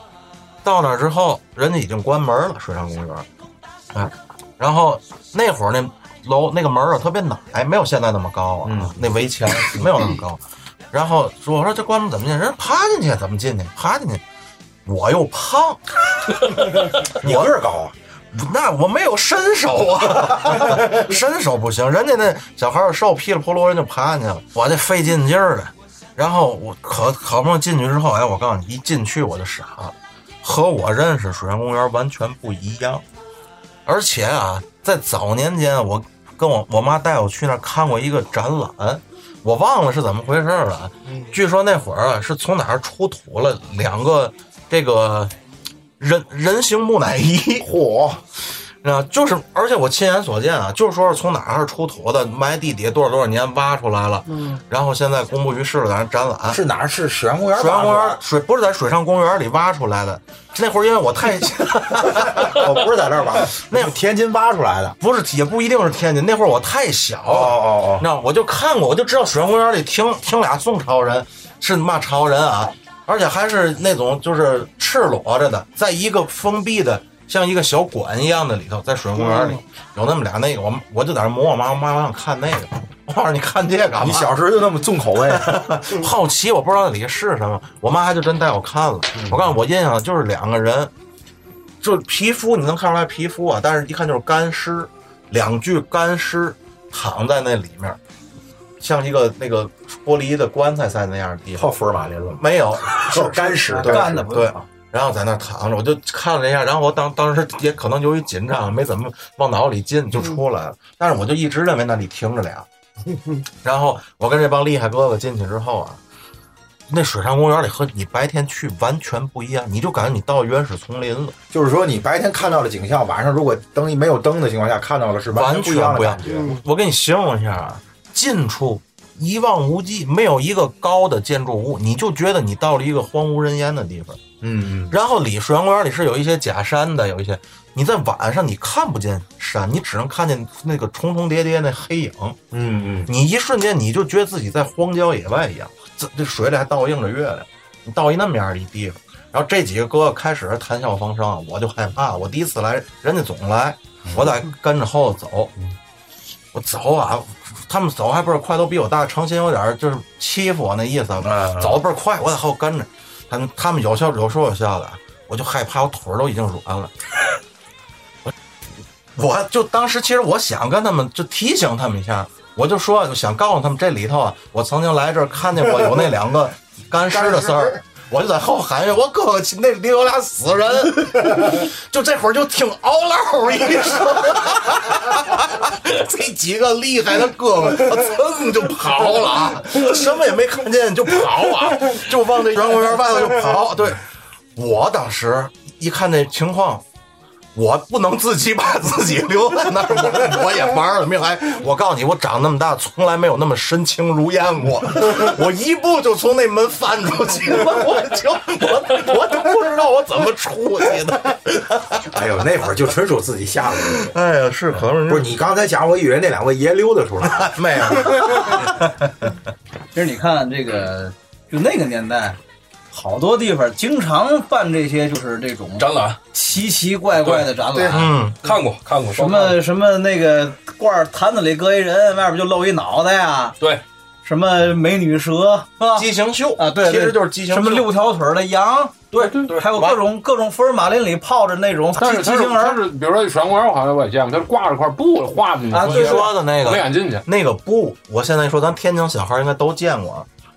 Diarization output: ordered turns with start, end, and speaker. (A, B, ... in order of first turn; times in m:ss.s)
0:00.6-0:03.3 A
0:03.9-0:14.2 A
0:08.6-0:09.0 B
0:14.8-0:15.8 A
0:17.0-0:17.9 B
0:17.1-0:17.5 A
0:18.3-0:33.0 A
0:33.8-0:45.3 A
0:46.0-0:47.7 A
0:47.6-0:48.2 B
0:48.8-0:56.6 A
0:56.5-0:58.2 B
0:57.5-1:02.9 A
1:02.1-1:05.0 B
1:03.5-1:04.0 A
1:05.0-1:24.4 A
1:07.3-1:08.0 B
1:24.0-1:25.6 B
1:25.2-1:30.9 A
1:29.2-1:29.4 B
1:31.8-1:38.0 A
1:38.8-1:41.7 A
1:41.6-1:44.2 B
1:42.4-1:52.7 A
1:43.8-1:44.6 C
1:53.6-1:56.0 A
1:56.9-2:01.4 A
2:01.5-2:06.5 B
2:05.3-2:14.2 A
2:14.4-2:15.0 B
2:14.9-2:22.4 A
2:22.5-2:23.1 B
2:23.1-2:35.5 A
2:36.5-2:46.9 A
2:41.2-2:41.8 B
2:49.1-3:14.0 A
3:14.5-3:16.8 A
3:17.5-3:32.1 A
3:32.1-3:34.1 B
3:34.0-3:35.4 A
3:34.8-3:38.6 B
3:37.2-3:39.4 A
3:39.9-3:42.4 C
3:42.9-3:48.1 C
3:45.8-3:46.2 D
3:47.2-3:47.5 D
3:47.9-3:48.4 A
3:48.4-3:49.6 D
3:49.1-3:53.6 C
3:54.2-4:02.8 C
3:55.9-3:57.9 A
3:59.1-3:59.6 D
3:59.2-3:59.5 E
3:59.7-4:00.0 A
4:02.0-4:07.2 E
4:05.7-4:06.3 C
4:05.8-4:10.3 A